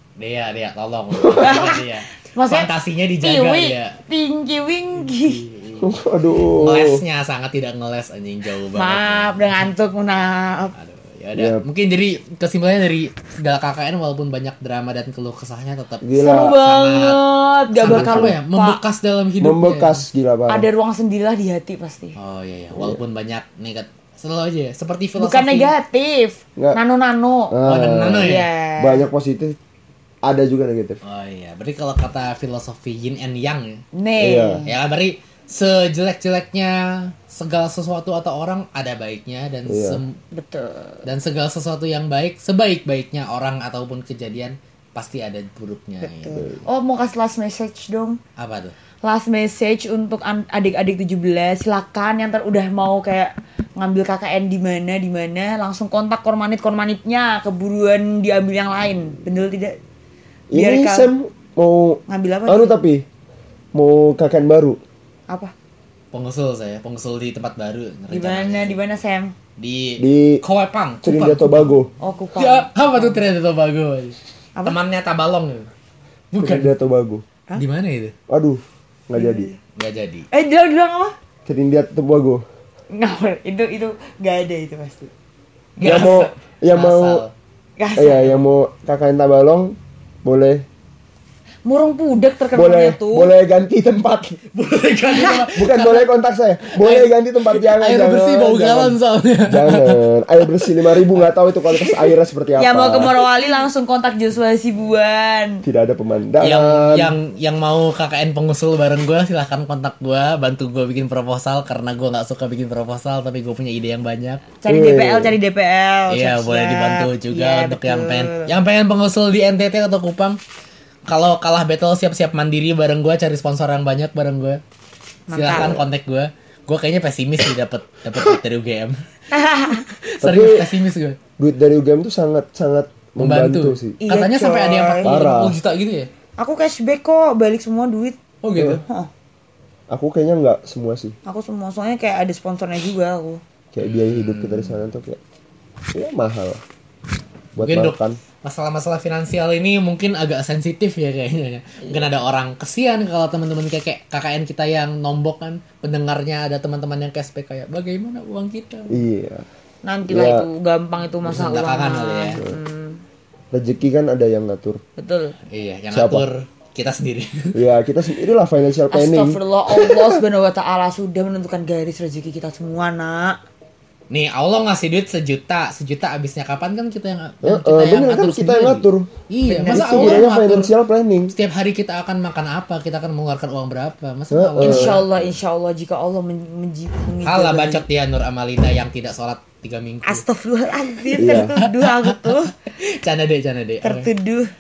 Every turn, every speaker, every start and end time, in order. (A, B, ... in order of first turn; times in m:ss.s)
0:00.2-0:04.0 A
0:01.2-0:01.5 B
0:01.3-0:05.5 C
0:05.2-0:05.9 A
0:05.8-0:07.0 B
0:06.6-0:09.6 A
0:08.7-0:10.8 C
0:10.8-0:17.2 A
0:11.4-0:11.6 B
0:16.0-0:16.6 B
0:16.2-0:18.8 C
0:17.7-0:20.0 A
0:17.8-0:18.4 B
0:19.4-0:20.7 B
0:20.5-0:22.2 C
0:22.2-0:25.7 A
0:22.7-0:23.0 B
0:25.2-0:27.6 C
0:27.5-0:29.6 B
0:27.6-0:28.5 A
0:28.2-0:29.1 C
0:30.2-0:31.0 B
0:31.0-0:33.8 A
0:33.9-0:34.7 C
0:34.2-0:34.6 B
0:34.7-0:40.2 A
0:39.7-0:40.0 B
0:40.3-0:41.0 C
0:41.0-0:46.4 A
0:46.0-0:48.2 C
0:48.4-0:48.8 A
0:49.0-0:59.8 C
1:00.5-1:03.0 B
1:00.5-1:01.1 C
1:02.1-1:02.8 C
1:03.7-1:04.8 B
1:06.1-1:08.8 A
1:08.1-1:09.3 C
1:09.6-1:11.8 A
1:10.0-1:10.4 B
1:11.0-1:11.9 B
1:12.0-1:13.2 C
1:12.4-1:15.7 A
1:16.3-1:16.7 A
1:16.4-1:17.2 B
1:17.6-1:18.2 A
1:18.3-1:19.5 B
1:19.2-1:19.6 C
1:19.8-1:20.3 A
1:20.3-1:21.2 C
1:21.5-1:22.4 B
1:22.9-1:25.1 C
1:25.8-1:26.2 C
1:25.8-1:27.2 B
1:25.8-1:27.3 A
1:27.8-1:28.5 C
1:28.0-1:30.6 B
1:31.6-1:33.3 C
1:32.5-1:34.4 B
1:34.5-1:36.1 A
1:35.1-1:35.5 C
1:35.6-1:43.2 B
1:36.6-1:41.2 A
1:42.6-1:45.6 C
1:45.6-1:47.1 B
1:46.4-1:54.5 A
1:54.6-1:58.5 C
1:54.7-1:55.4 B
1:56.1-2:00.4 A
2:01.1-2:04.6 A
2:05.3-2:05.8 C
2:05.3-2:09.0 A
2:09.3-2:09.9 C
2:09.9-2:11.2 A
2:10.2-2:10.7 B
2:11.4-2:14.0 B
2:13.2-2:16.1 A
2:14.0-2:15.1 C
2:15.0-2:15.6 B
2:16.4-2:18.2 C
2:18.4-2:18.8 A
2:18.6-2:18.8 B
2:18.8-2:19.1 C
2:19.9-2:21.2 B
2:21.3-2:23.4 C
2:23.7-2:25.2 B
2:23.8-2:24.8 A
2:25.9-2:26.6 B
2:27.6-2:28.2 B
2:27.6-2:39.0 A
2:38.9-2:39.4 B
2:39.8-2:43.0 C
2:40.1-2:40.5 B
2:41.2-2:42.4 A
2:43.5-2:44.8 B
2:45.0-2:45.4 C
2:45.5-2:47.6 A
2:45.9-2:46.2 B
2:47.5-2:50.2 B
2:48.9-2:53.4 C
2:54.1-3:00.7 A
2:57.4-2:59.1 B
2:59.5-3:00.3 C
2:59.7-3:01.3 B
3:01.3-3:05.2 A
3:04.3-3:05.0 B
3:04.6-3:07.8 C
3:07.2-3:10.2 A
3:10.0-3:12.5 C
3:11.2-3:11.5 B
3:11.6-3:14.1 A
3:13.8-3:14.5 C